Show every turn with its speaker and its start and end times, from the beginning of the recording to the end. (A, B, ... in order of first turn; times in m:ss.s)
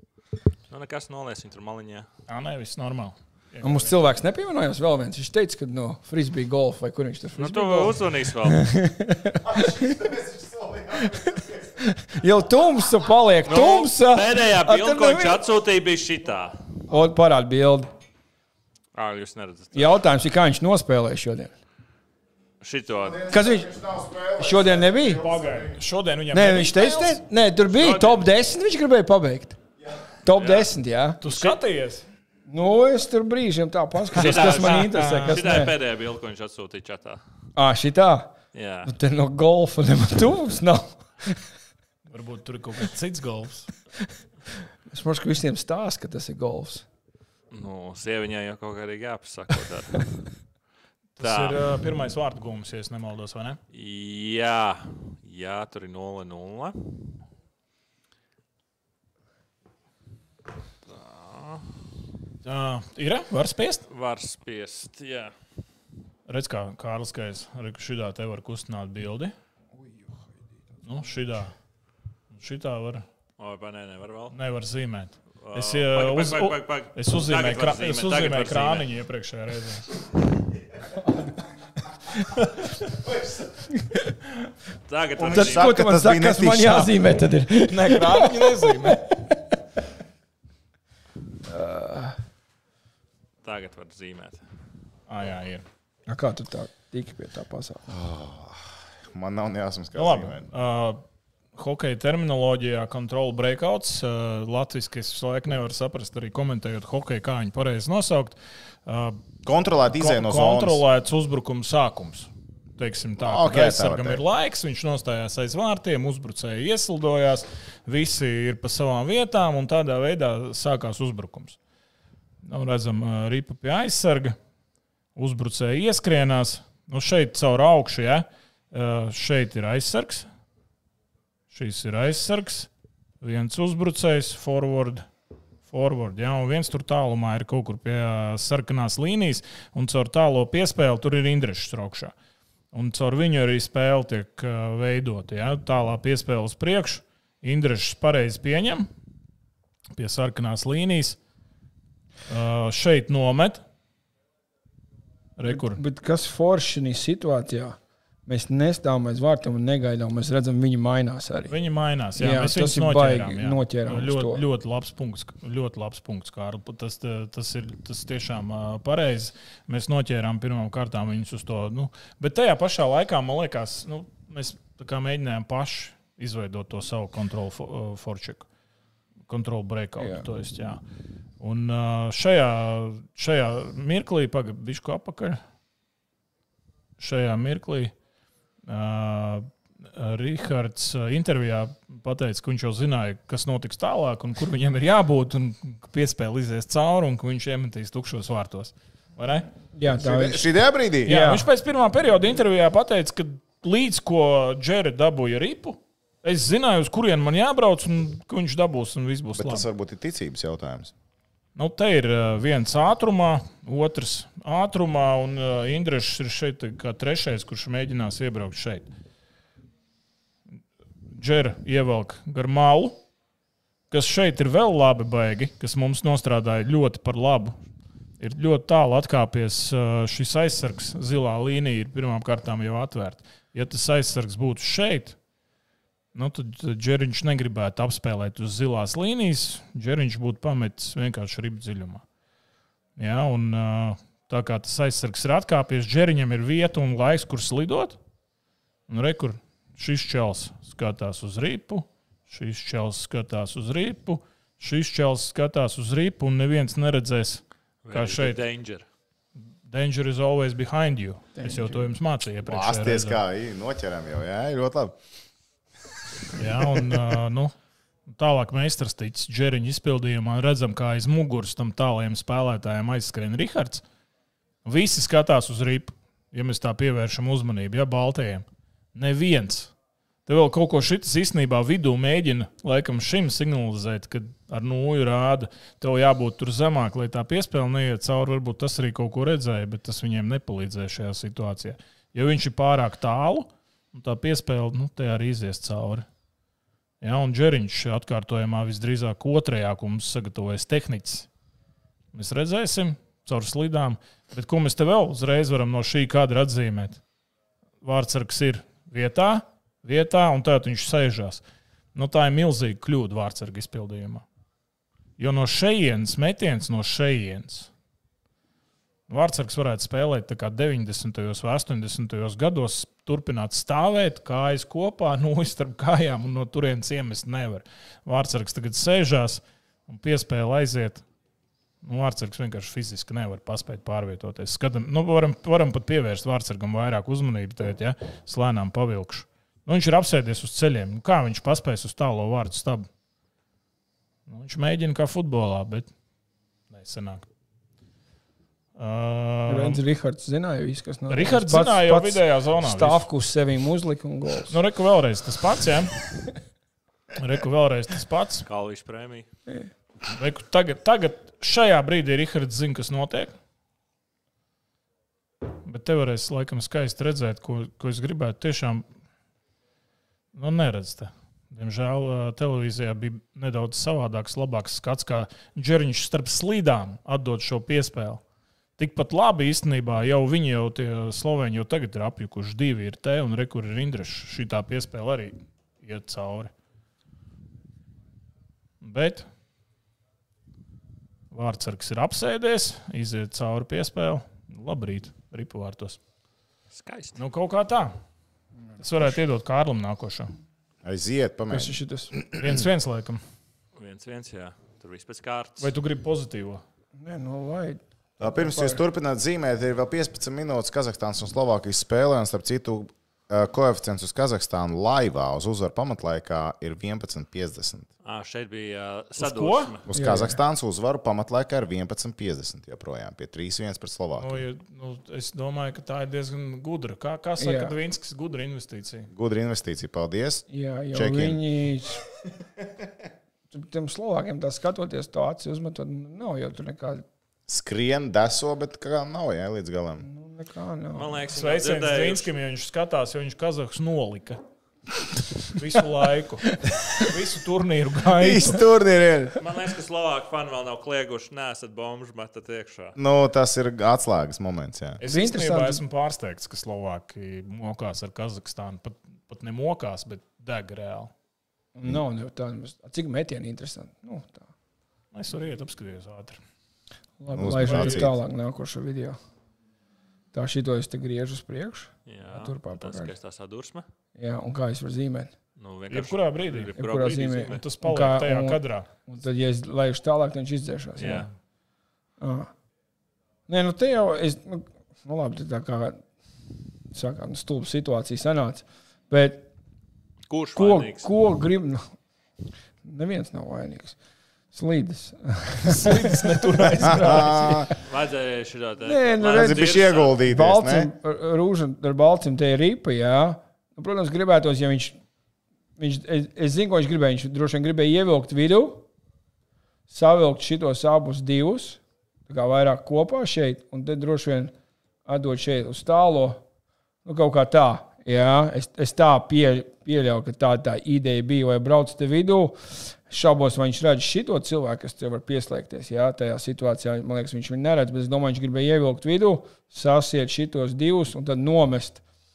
0:00.7-0:02.1 A
0:02.3-0:04.0 B
0:03.6-0:09.9 C
0:07.4-0:08.6 A
0:09.4-0:11.8 D
0:11.0-0:15.4 C
0:13.4-0:16.6 A
0:16.9-0:17.9 C
0:18.9-0:20.0 A
0:19.7-0:21.5 C
0:22.6-0:23.3 A
0:23.0-0:25.8 D
0:23.3-0:23.7 C
0:24.4-0:25.2 C
0:25.2-0:27.2 B
0:26.3-0:29.6 C
0:27.8-0:28.2 A
0:30.2-0:31.6 C
0:30.3-0:30.7 A
0:31.2-0:32.0 B
0:32.5-0:35.7 C
0:34.1-0:37.2 A
0:34.1-0:35.7 B
0:37.6-0:41.4 C
0:38.5-0:38.9 A
0:42.1-0:43.7 B
0:44.9-0:46.8 C
0:47.5-0:50.1 A
0:51.2-0:53.6 B
0:51.2-0:51.6 A
0:53.7-0:56.8 A
1:00.9-1:01.6 A
1:02.4-1:03.8 B
1:03.9-1:05.3 A
1:06.3-1:09.3 B
1:10.8-1:11.5 B
1:12.3-1:13.0 B
1:13.4-1:14.3 A
1:14.3-1:19.9 B
1:15.4-1:18.9 A
1:24.9-1:25.7 A
1:25.2-1:27.0 D
1:25.3-1:29.4 C
1:27.7-1:29.0 B
1:31.4-1:32.2 C
1:33.4-1:34.4 A
1:35.1-1:35.6 B
1:36.1-1:38.0 C
1:37.9-1:40.5 D
1:39.9-1:41.0 B
1:41.5-1:49.2 B
1:49.4-1:50.8 D
1:49.9-2:01.6 B
1:53.2-1:54.2 D
2:02.4-2:04.4 B
2:05.2-2:10.2 B
2:11.5-2:12.7 B
2:13.2-2:15.0 B
2:15.7-2:22.1 B
2:22.7-2:28.9 B
2:29.9-2:31.2 B
2:32.3-2:33.6 B
2:35.4-2:35.8 B
2:35.5-2:41.5 C
2:41.5-2:58.5 B
2:42.2-2:44.4 C
2:59.3-3:00.8 B
3:00.0-3:00.2 C
3:01.4-3:05.4 B
3:07.0-3:07.9 B
3:08.6-3:19.5 B
3:19.7-3:20.5 C
3:19.8-3:21.2 D
3:21.0-3:21.5 C
3:21.0-3:29.7 B
3:29.3-3:30.9 D
3:31.6-3:38.9 B
3:41.1-3:43.0 B
3:43.9-3:47.5 B
3:48.2-3:55.2 B
3:56.1-4:02.0 B
4:03.0-4:08.0 B
4:08.9-4:18.4 B
4:17.8-4:18.8 A
4:19.6-4:23.2 B
4:21.4-4:21.8 C
4:22.4-4:25.0 D
4:26.3-4:27.5 B
4:28.1-4:33.8 B
4:34.6-4:39.7 B
4:40.2-4:56.0 B
4:57.0-5:01.3 B
5:02.1-5:07.0 B
5:07.8-5:11.4 B
5:11.9-5:14.2 B
5:15.2-5:17.7 B
5:19.1-5:31.0 B
5:31.8-5:42.9 B
5:44.3-5:45.9 B
5:46.7-5:47.2 B
5:48.8-5:49.8 B
5:49.5-5:54.6 C
5:51.1-5:53.0 B
5:54.5-5:55.9 B
5:57.1-5:58.5 B
5:58.4-5:59.2 A
6:00.1-6:03.3 B
6:05.6-6:08.8 B
6:10.3-6:18.2 B
6:18.8-6:26.5 B
6:28.8-6:29.2 B
6:31.3-6:36.0 B
6:36.7-6:37.2 A
6:37.2-6:38.0 B
6:38.8-6:40.3 B
6:40.8-6:42.4 D
6:41.5-6:42.1 C
6:42.3-6:43.2 B
6:43.8-6:45.7 A
6:45.6-6:46.6 B
6:47.0-6:48.8 C
6:48.2-6:57.9 D
6:58.0-6:59.8 A
6:59.2-6:59.7 B
6:59.8-7:04.4 D
6:59.9-7:00.4 C
7:04.2-7:09.1 B
7:07.4-7:07.7 C
7:09.1-7:11.4 D
7:10.5-7:12.0 C
7:13.5-7:17.0 C
7:17.5-7:20.0 D
7:20.0-7:21.3 C
7:20.9-7:22.3 A
7:21.3-7:24.4 B
7:25.4-7:28.6 B
7:28.1-7:29.4 D
7:29.4-7:33.0 A
7:33.0-7:35.0 D
7:35.0-7:41.1 B
7:35.1-7:35.8 C
7:41.7-7:44.5 C
7:45.1-7:46.4 B
7:47.2-7:49.2 C
7:47.3-7:48.1 D
7:47.6-7:48.1 B
7:50.3-7:53.1 C
7:52.1-7:53.8 A
7:54.2-7:55.3 C
7:55.6-7:57.6 A
7:55.9-7:58.9 B
7:56.8-8:01.3 C
8:01.0-8:01.3 A
8:02.2-8:02.5 C
8:03.5-8:06.0 C
8:06.9-8:09.5 C
8:10.3-8:11.1 A
8:10.5-8:11.9 C
8:12.8-8:14.0 C
8:14.5-8:17.7 C
8:15.6-8:17.3 B
8:16.8-8:17.7 D
8:17.8-8:20.2 A
8:18.8-8:25.0 C
8:19.2-8:20.9 D
8:25.8-8:28.8 C
8:29.9-8:34.5 C
8:35.0-8:36.4 C
8:37.0-8:52.0 C